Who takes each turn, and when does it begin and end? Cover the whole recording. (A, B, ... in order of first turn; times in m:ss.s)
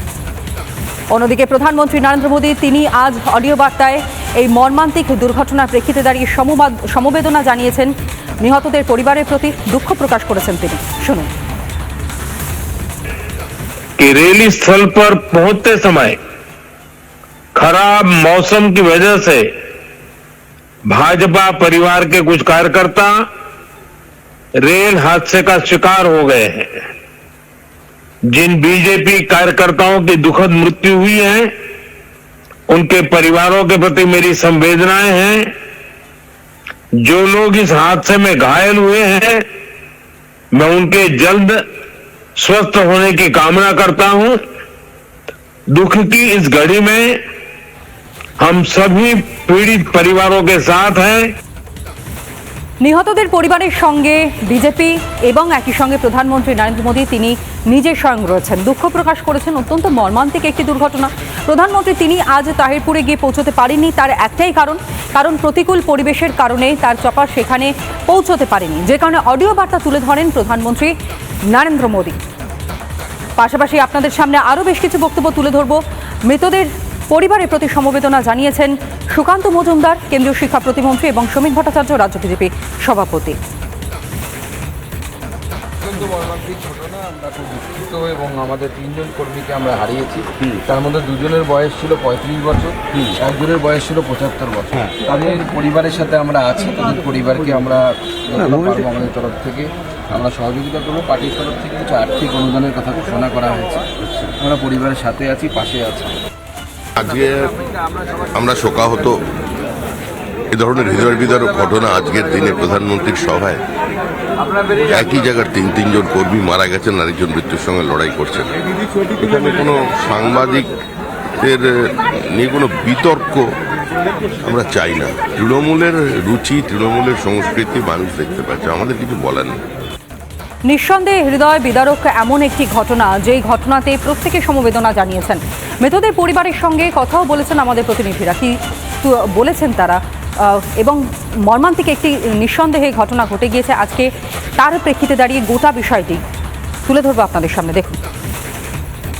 0:01.1-0:11.3 A
0:14.0-0:16.2 B
0:17.5-0:19.5 B
0:20.9-0:23.3 B
0:24.6-0:26.8 B
0:28.3-0:31.5 B
0:32.7-0:35.5 B
0:37.0-0:39.5 B
0:40.5-0:41.6 B
0:42.4-0:44.4 B
0:45.7-0:47.2 B
0:48.4-0:51.4 B
0:52.8-1:10.9 A
1:11.5-1:12.2 A
1:13.4-1:23.4 A
1:25.8-1:43.8 C
1:44.4-1:46.1 C
1:47.0-1:47.5 D
1:48.3-1:49.2 D
1:50.5-1:53.6 D
1:54.9-1:58.5 D
1:59.0-2:00.7 D
2:01.4-2:03.4 D
2:04.4-2:09.6 D
2:10.6-2:26.2 A
2:26.8-2:28.0 A